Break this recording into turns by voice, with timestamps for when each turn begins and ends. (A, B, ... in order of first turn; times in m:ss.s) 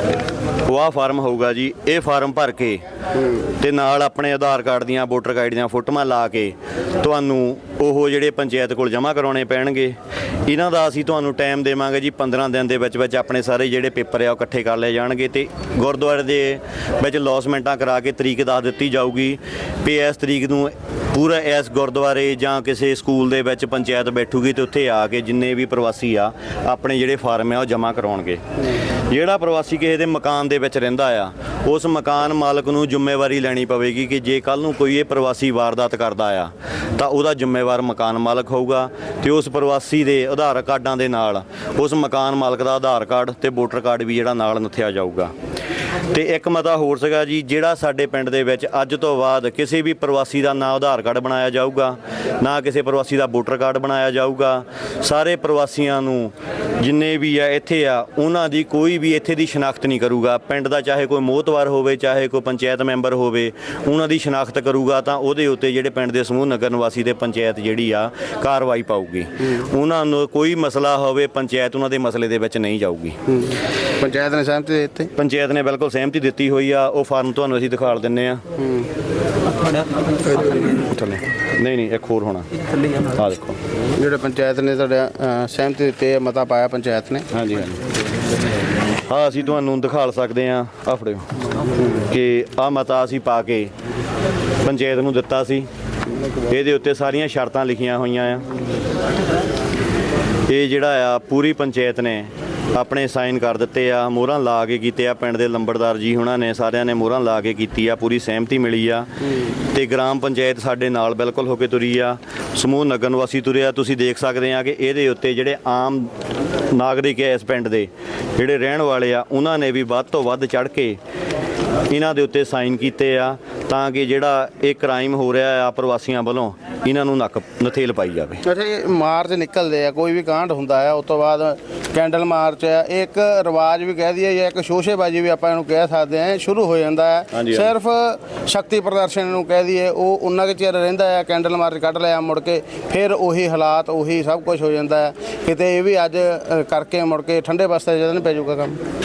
0:00.7-0:28.4 A
0:29.1-0:45.3 A
0:46.1-1:13.2 A
1:13.3-1:15.1 B
1:15.2-1:18.4 A
1:18.6-1:18.9 B
1:20.4-1:23.6 A
1:24.0-1:27.3 B
1:27.3-1:27.8 A
1:29.1-1:31.3 A
1:31.9-1:33.7 A
1:34.6-1:35.7 A
1:36.5-1:38.5 A
1:40.5-1:56.1 A
1:56.7-2:01.0 A
2:01.9-2:08.4 A
2:08.4-2:28.8 B
2:17.3-2:17.7 A